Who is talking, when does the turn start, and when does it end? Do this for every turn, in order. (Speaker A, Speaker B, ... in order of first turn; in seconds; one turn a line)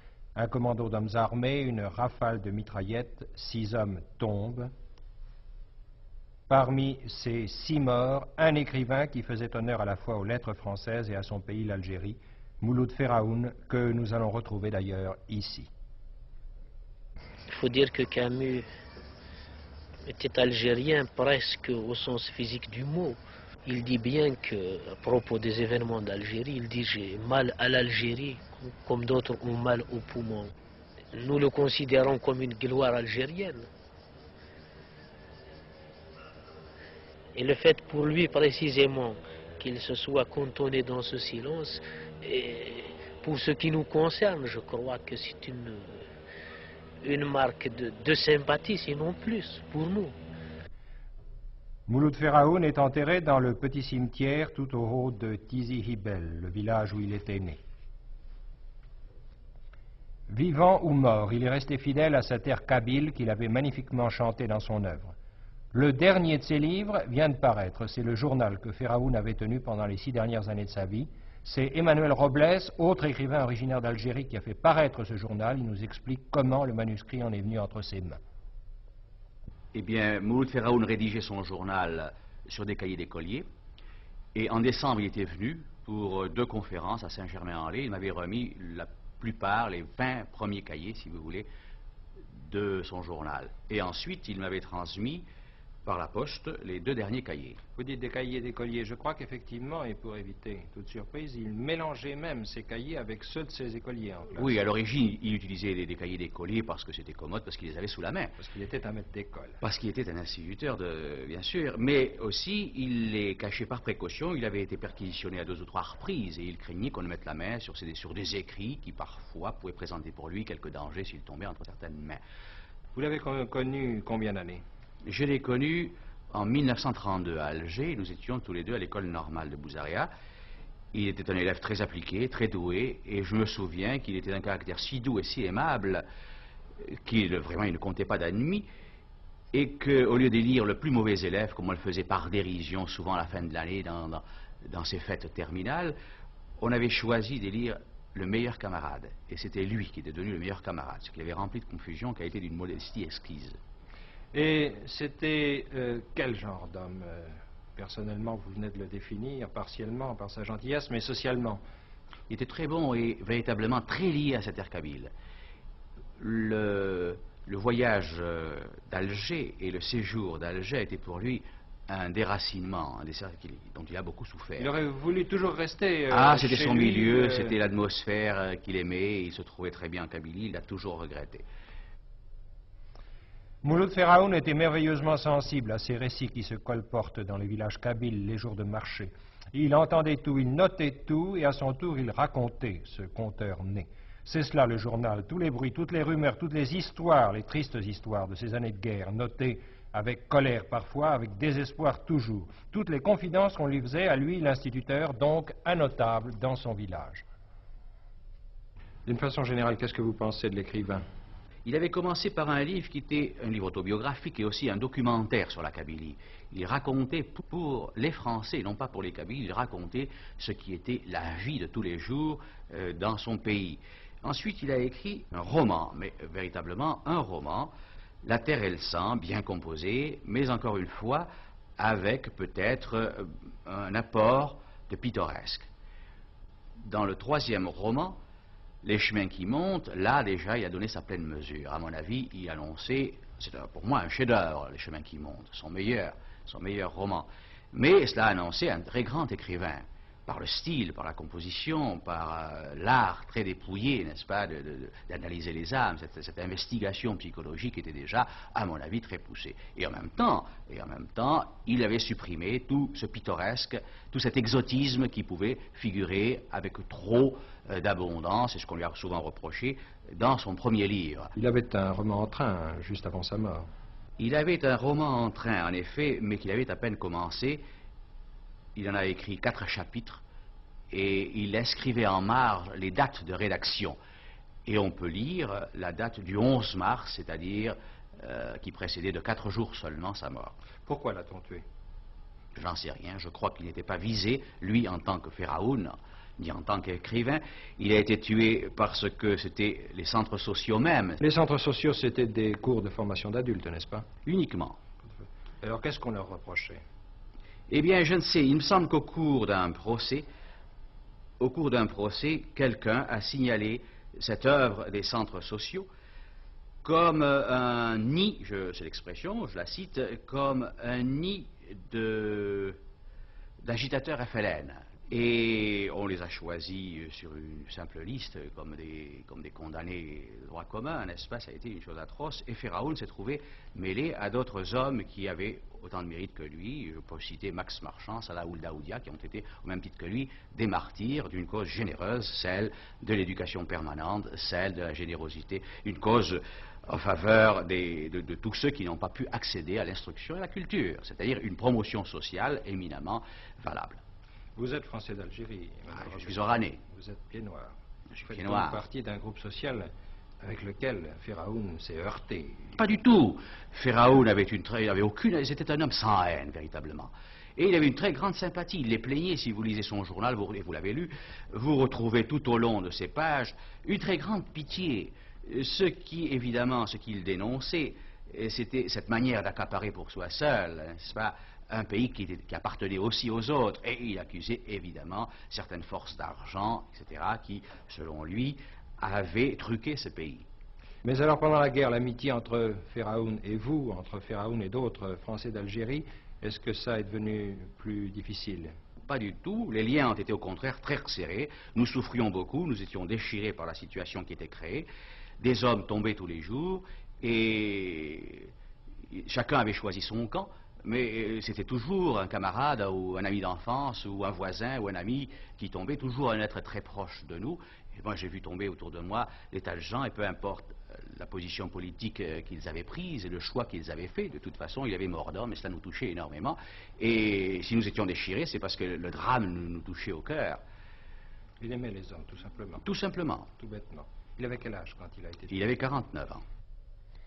Speaker A: 0.3-4.7
Speaker A: 6.5-15.7
Speaker B: 17.5-18.6
Speaker B: 20.1-30.5
Speaker B: 31.1-33.7
Speaker B: 37.4-46.1
Speaker B: 47.0-50.2
Speaker A: 51.9-57.6
Speaker A: 60.3-65.1
Speaker A: 65.7-78.2
Speaker C: 79.7-83.5
Speaker C: 84.3-91.5
Speaker C: 92.4-95.2
Speaker C: 95.8-97.6
Speaker A: 97.8-104.6
Speaker C: 104.3-108.4
Speaker A: 108.4-109.6
Speaker C: 109.6-122.2
Speaker A: 123.0-124.6
Speaker C: 125.0-130.1
Speaker C: 130.9-136.1
Speaker C: 136.8-138.7
Speaker C: 139.5-145.9
Speaker C: 146.6-153.6
Speaker A: 154.3-161.6
Speaker C: 162.3-165.1
Speaker C: 166.2-174.7
Speaker A: 174.6-177.6
Speaker C: 176.1-181.4
Speaker A: 183.6-207.2
Speaker A: 209.1-211.0
Speaker C: 211.7-227.7
Speaker C: 228.2-235.7
Speaker C: 236.8-238.2
Speaker C: 238.8-271.3
Speaker A: 271.4-273.7
Speaker C: 274.2-277.6
Speaker C: 278.8-280.2
Speaker C: 280.9-284.0
Speaker C: 284.7-290.6
Speaker A: 290.9-291.6
Speaker C: 292.6-301.2
Speaker A: 301.2-304.1
Speaker C: 304.3-304.8
Speaker A: 305.1-306.8
Speaker C: 307.7-310.3
Speaker C: 311.4-315.9
Speaker C: 316.8-322.8
Speaker C: 323.6-354.0
Speaker A: 354.6-362.7
Speaker C: 355.9-356.8
Speaker C: 358.1-358.8
Speaker C: 362.8-390.4
Speaker A: 391.0-398.7
Speaker C: 399.1-404.9
Speaker C: 405.4-408.5
Speaker C: 409.1-430.6
Speaker A: 431.6-432.9
Speaker C: 432.8-433.5
Speaker A: 433.6-435.5
Speaker C: 435.5-436.4